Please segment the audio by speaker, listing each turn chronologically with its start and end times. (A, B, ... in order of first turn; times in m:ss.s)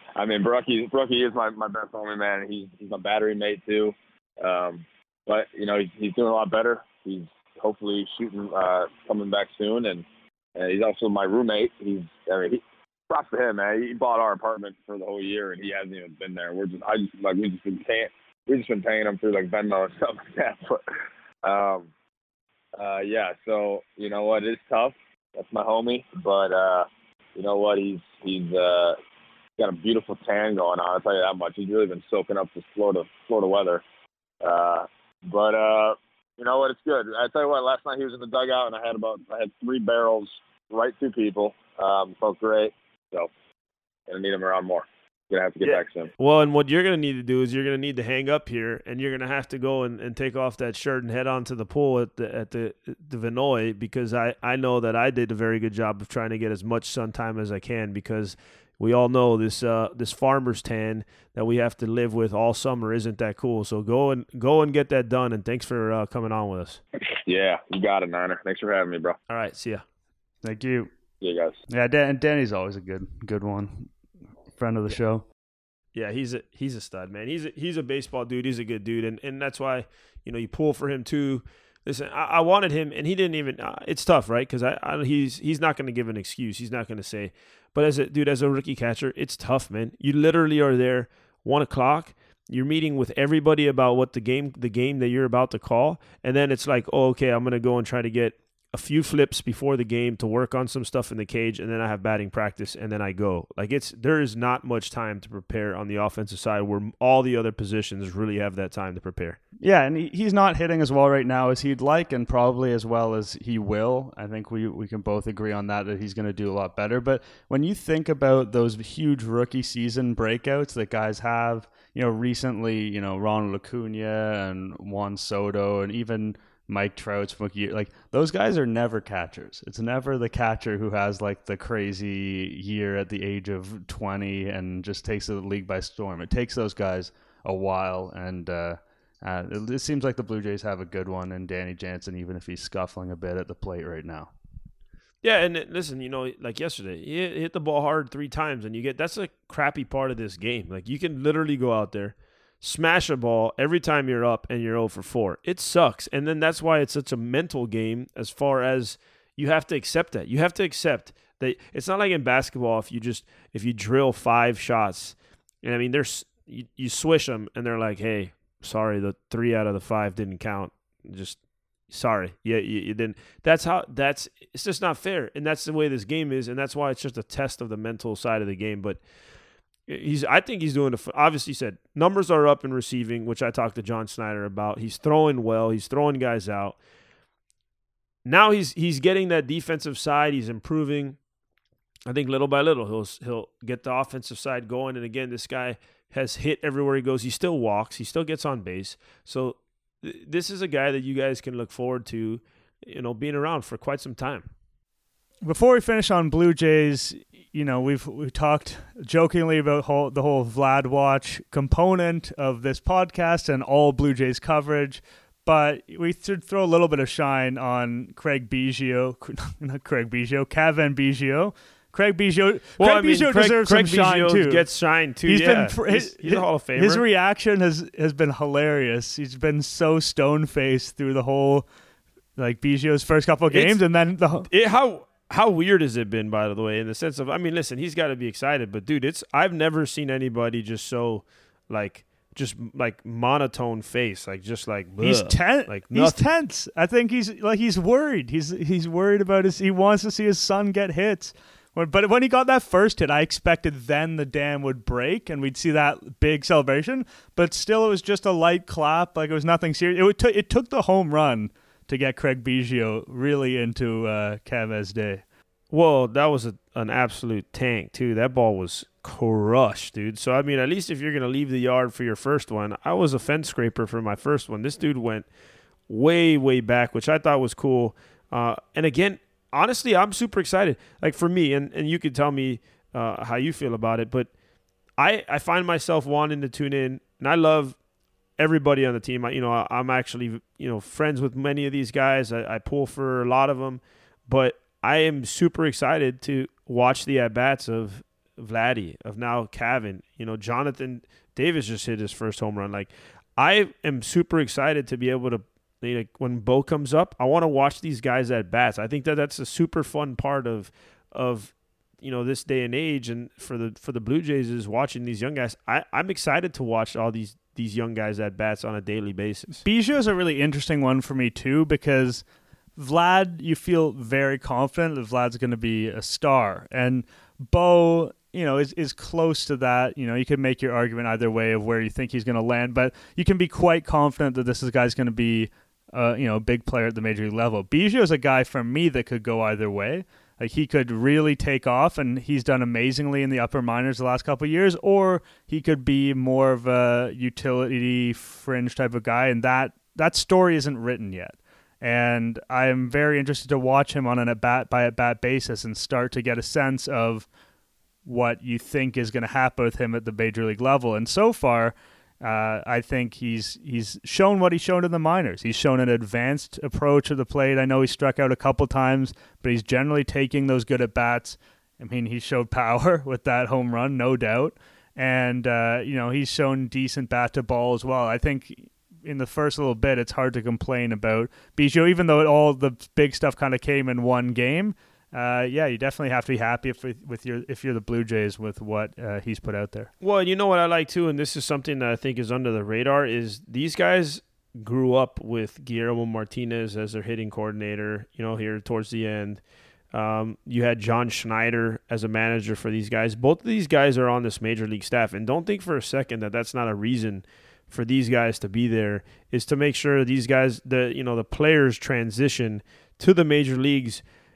0:00.2-0:10.0 A
0:10.6-0:20.8 A
0:21.4-0:21.9 A
0:22.8-0:29.0 A
0:29.6-0:33.8 A
0:34.4-0:43.3 A
0:44.1-0:46.1 A
0:45.6-1:06.8 B
1:07.3-1:09.2 A
1:09.3-1:09.8 B
1:10.4-1:10.9 C
1:11.2-1:11.6 A
1:11.7-1:13.9 C
1:14.6-1:15.2 C
1:15.9-1:49.4 B
1:49.6-2:24.3 C
2:25.2-2:59.0 B
2:59.9-3:06.8 B
3:08.2-3:11.2 B
3:12.1-3:24.5 B
3:25.4-3:44.6 C
3:42.8-3:47.0 B
3:45.3-3:51.6 C
3:52.4-3:54.5 C
3:53.5-3:53.8 B
3:54.5-4:06.2 B
4:05.0-4:25.2 C
4:25.7-4:35.3 B
4:35.9-4:44.3 B
4:45.0-4:47.8 B
4:48.4-5:19.6 B
5:19.6-5:22.2 C
5:22.8-5:57.3 C
5:58.0-6:29.9 C
6:30.0-6:39.4 B
6:39.9-6:54.0 B